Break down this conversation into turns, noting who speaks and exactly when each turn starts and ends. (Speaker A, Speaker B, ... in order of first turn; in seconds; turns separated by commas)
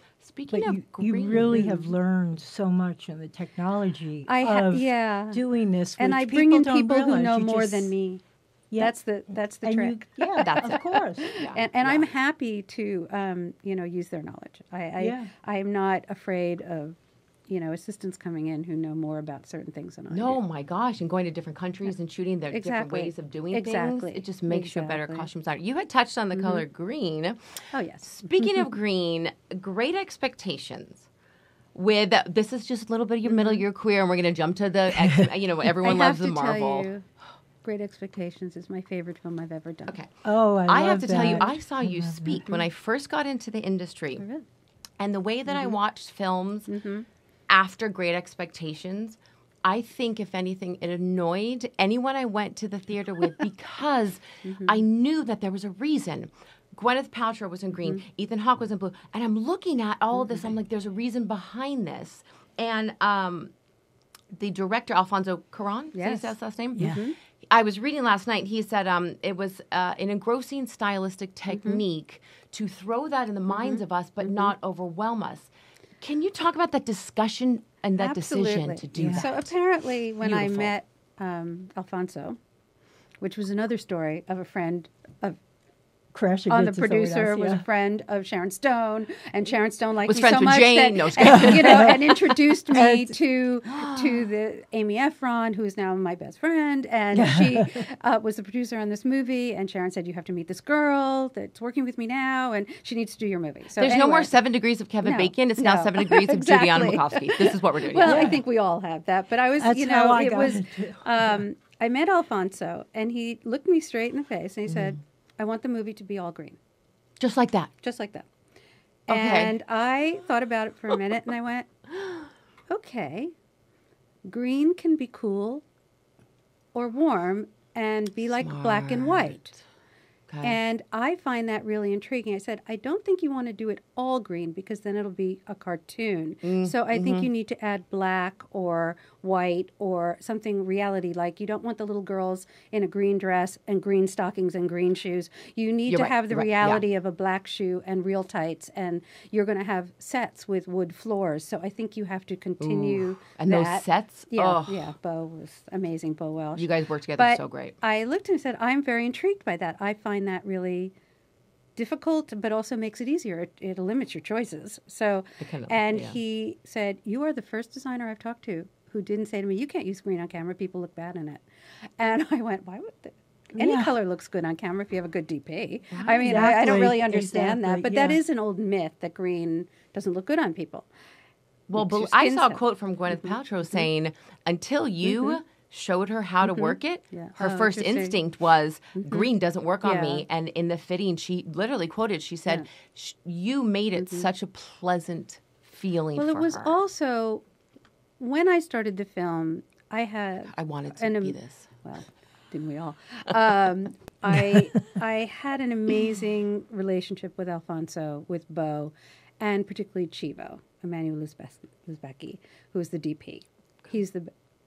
Speaker A: 0.2-1.8, Speaker B: 0.5-7.9, Speaker C: 4.3-5.4, Speaker C: 6.0-8.2, Speaker B: 8.7-9.0, Speaker C: 8.8-17.0, Speaker B: 9.6-11.3, Speaker A: 10.4-12.1, Speaker B: 15.0-15.3, Speaker C: 17.5-20.4, Speaker A: 20.1-27.6, Speaker C: 22.5-25.3, Speaker C: 26.3-26.6, Speaker C: 27.7-28.7, Speaker A: 28.1-31.1, Speaker A: 31.7-36.9, Speaker C: 33.3-33.6, Speaker C: 35.8-37.0, Speaker C: 37.6-40.0, Speaker B: 40.2-42.4, Speaker A: 40.7-44.3, Speaker C: 41.1-41.5, Speaker C: 44.2-44.5, Speaker A: 45.0-46.7, Speaker C: 45.5-45.8, Speaker C: 46.7-47.1, Speaker A: 47.5-63.5, Speaker C: 54.5-54.8, Speaker A: 64.3-79.5, Speaker C: 66.0-67.2, Speaker C: 71.5-71.8, Speaker C: 73.6-73.8, Speaker C: 78.0-82.4, Speaker B: 79.0-79.3, Speaker A: 80.2-80.7, Speaker C: 83.2-85.4, Speaker B: 86.1-87.6, Speaker C: 86.5-104.3, Speaker A: 90.0-92.0, Speaker B: 91.2-93.2, Speaker A: 93.7-94.2, Speaker B: 97.1-97.8, Speaker A: 103.8-108.4, Speaker C: 105.0-116.6, Speaker B: 108.0-108.4, Speaker B: 109.6-111.4, Speaker A: 114.7-115.0, Speaker A: 117.2-117.7, Speaker C: 117.8-118.3, Speaker C: 119.1-121.7, Speaker A: 119.1-119.5, Speaker C: 122.7-123.3, Speaker C: 124.2-125.6, Speaker C: 126.7-129.5, Speaker A: 128.4-129.4, Speaker A: 130.3-130.6, Speaker C: 130.4-160.9, Speaker A: 136.4-137.3, Speaker A: 145.9-146.8, Speaker A: 152.6-154.9, Speaker A: 156.6-157.8, Speaker C: 161.8-171.4, Speaker A: 165.4-166.2, Speaker C: 172.0-180.9, Speaker B: 173.6-173.9, Speaker A: 175.9-176.6, Speaker B: 176.2-178.2, Speaker A: 181.7-196.8, Speaker C: 181.7-183.9, Speaker C: 185.1-185.4, Speaker C: 186.4-188.2, Speaker C: 189.0-190.2, Speaker C: 194.0-194.3, Speaker C: 196.2-197.4, Speaker C: 198.2-214.3, Speaker A: 200.5-201.7